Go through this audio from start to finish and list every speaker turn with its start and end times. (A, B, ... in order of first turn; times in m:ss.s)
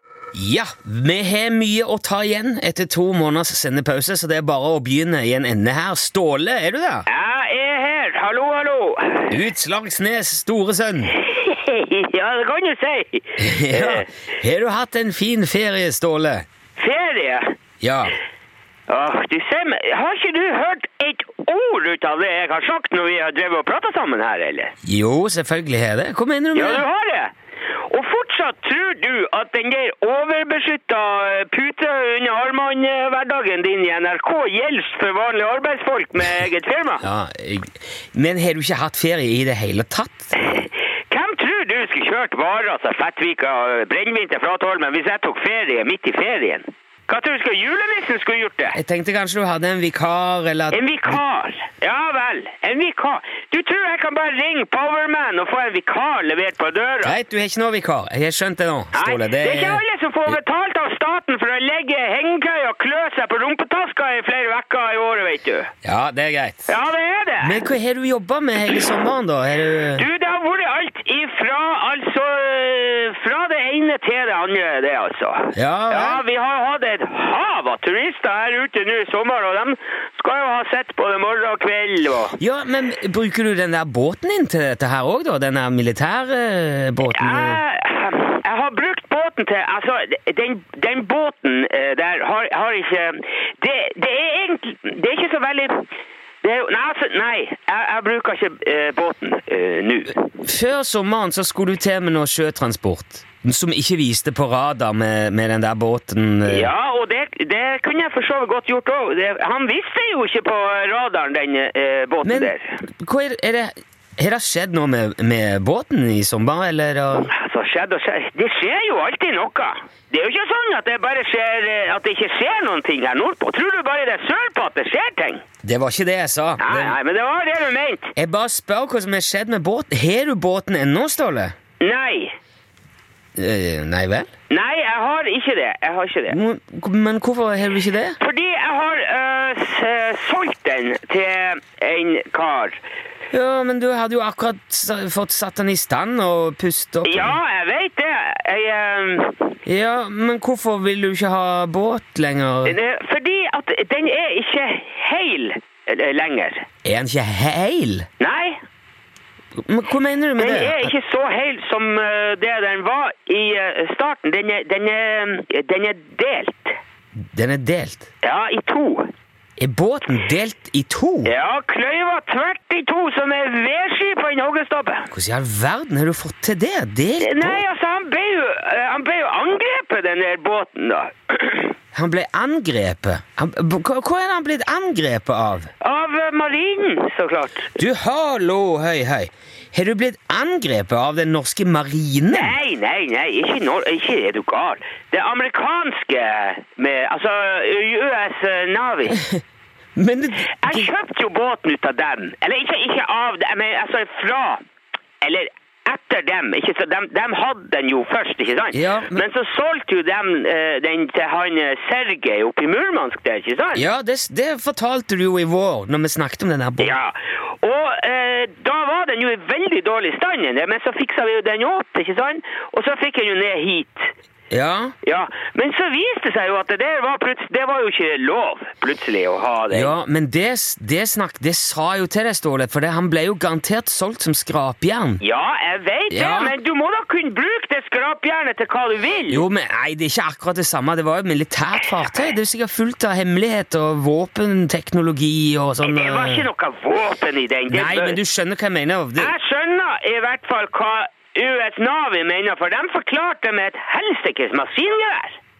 0:00.3-0:07.1 A
0:07.2-0:09.2 B
0:09.3-0:11.2 A
0:11.2-0:13.3 B
0:13.4-0:16.4 A
0:16.8-0:17.4 B
0:17.8-0:18.2 A
0:18.9-0:24.7 B
0:24.8-0:26.9 A
0:26.9-0:27.3 B
0:27.9-0:37.0 B
0:37.0-0:40.3 A
0:40.6-0:48.7 B
0:48.7-0:51.2 A
0:50.8-0:57.0 B
0:57.0-1:00.4 A
0:59.8-1:05.7 B
1:05.8-1:06.8 A
1:06.9-1:07.4 B
1:07.4-1:10.1 A
1:10.2-1:15.4 B
1:15.5-1:16.2 A
1:16.1-1:22.2 B
1:22.2-1:27.6 A
1:27.3-1:35.7 B
1:36.4-1:40.1 B
1:40.4-1:46.7 A
1:46.7-1:52.2 B
1:52.2-1:57.3 A
1:57.4-2:05.4 B
2:05.6-2:07.0 A
2:07.0-2:08.1 B
2:08.1-2:11.5 A
2:11.8-2:12.2 B
2:13.4-2:14.3 A
2:14.5-2:16.3 B
2:16.3-2:18.2 A
2:18.2-2:22.7 B
2:23.3-2:27.4 A
2:27.5-2:29.4 B
2:29.6-2:32.8 A
2:32.8-2:36.6 B
2:36.8-2:38.0 A
2:38.2-2:38.5 B
2:39.6-2:40.9 A
2:40.9-2:46.6 B
2:47.2-2:48.0 A
2:48.2-2:49.0 B
2:49.6-2:51.3 A
2:51.4-2:55.0 B
2:55.1-2:57.6 A
2:57.7-3:01.7 B
3:01.9-3:05.7 A
3:05.8-3:07.6 B
3:07.8-3:12.6 A
3:12.6-3:19.1 B
3:19.1-3:19.4 A
3:20.0-3:20.9 A
3:20.7-3:24.6 B
3:25.2-3:28.7 B
3:28.7-3:29.2 A
3:29.3-3:33.8 B
3:33.7-3:37.0 A
3:37.0-3:44.0 B
3:44.5-3:44.9 A
3:45.1-3:49.8 B
3:49.7-3:55.2 A
3:55.2-3:56.1 B
3:56.1-3:56.6 A
3:56.6-3:59.3 B
3:59.3-4:06.5 A
4:06.6-4:07.8 B
4:07.7-4:09.3 A
4:09.4-4:15.3 B